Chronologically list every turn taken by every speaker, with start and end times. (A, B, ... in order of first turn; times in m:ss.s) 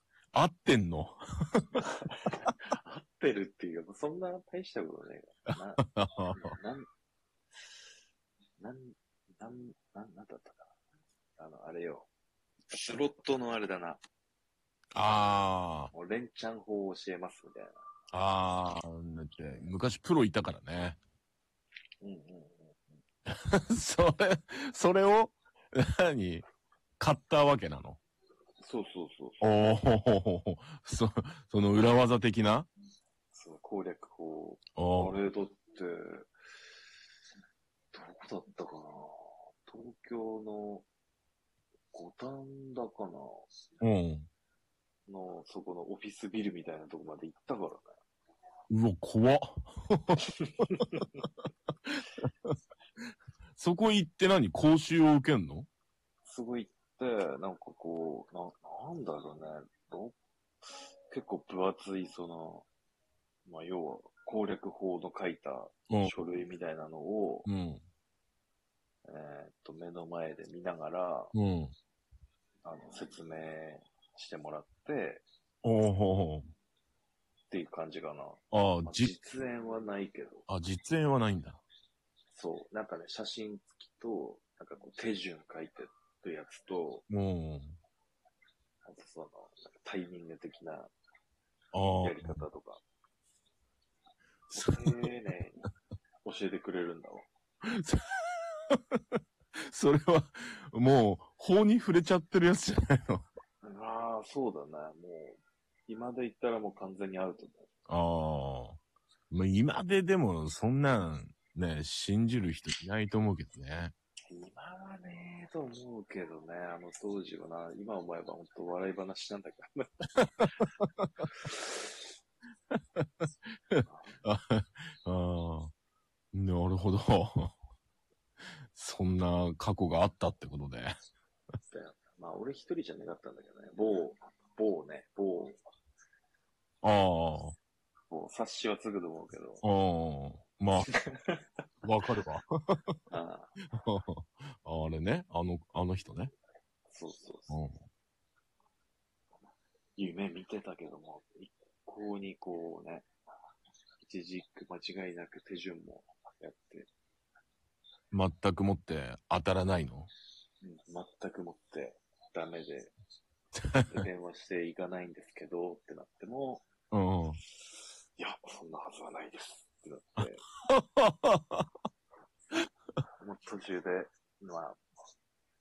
0:00.3-0:01.8 A
0:01.8-0:06.9 B
0:05.8-0:06.5 A
0:08.6-0:10.7 B
0:11.4-0:12.1 B
0:12.7-0:14.0 B
0:14.9-0:15.9 A
0:15.9-0:17.7 B
0:18.1-0:21.0 A
0:22.0-0:23.0 B
0:23.3-0:26.4 A
0:27.0-0:28.0 A
0:28.6-0:29.4 B
0:29.4-0:32.7 A
0:33.3-0:36.3 B
0:34.8-0:35.2 A
0:37.9-0:40.9 B
0:41.9-0:43.5 B
0:43.8-0:44.3 A
0:45.1-0:48.0 B
0:48.7-0:51.3 A
0:50.2-0:51.0 B
0:51.9-0:52.5 A
0:53.6-0:55.7 A
0:56.3-1:02.7 B
1:03.5-1:07.5 B
1:05.9-1:06.2 A
1:07.4-1:07.8 A
1:09.0-1:11.4 B
1:11.3-1:11.7 A
1:12.6-1:15.2 B
1:15.6-1:16.5 A
1:17.5-1:20.5 B
1:18.5-1:19.1 A
1:20.5-1:21.6 A
1:22.3-1:27.0 B
1:27.1-1:27.8 A
1:28.8-1:30.9 B
1:31.7-1:32.4 A
1:32.0-1:32.8 B
1:34.5-1:34.9 A
1:34.6-1:35.6 B
1:36.2-1:37.3 B
1:37.7-1:39.2 A
1:39.7-1:43.2 A
1:43.6-1:47.7 B
1:47.9-1:48.8 A
1:49.3-1:53.9 A
1:54.3-1:59.9 B
2:00.2-2:01.3 A
2:01.3-2:02.0 B
2:02.7-2:03.1 A
2:03.7-2:05.7 A
2:03.9-2:04.2 B
2:06.3-2:07.5 A
2:08.7-2:10.9 A
2:11.7-2:15.6 B
2:16.8-2:17.6 A
2:18.1-2:19.6 B
2:19.6-2:20.9 A
2:20.9-2:21.4 B
2:21.8-2:22.9 A
2:23.1-2:23.5 B
2:23.7-2:26.3 A
2:26.9-2:27.6 B
2:27.5-2:27.8 A
2:30.0-2:33.1 B
2:34.0-2:36.9 B
2:38.1-2:40.1 A
2:40.6-2:42.9 B
2:43.6-2:44.0 A
2:43.9-2:46.6 B
2:46.9-2:47.4 A
2:47.6-2:50.4 B
2:50.7-2:51.7 A
2:53.2-2:54.8 B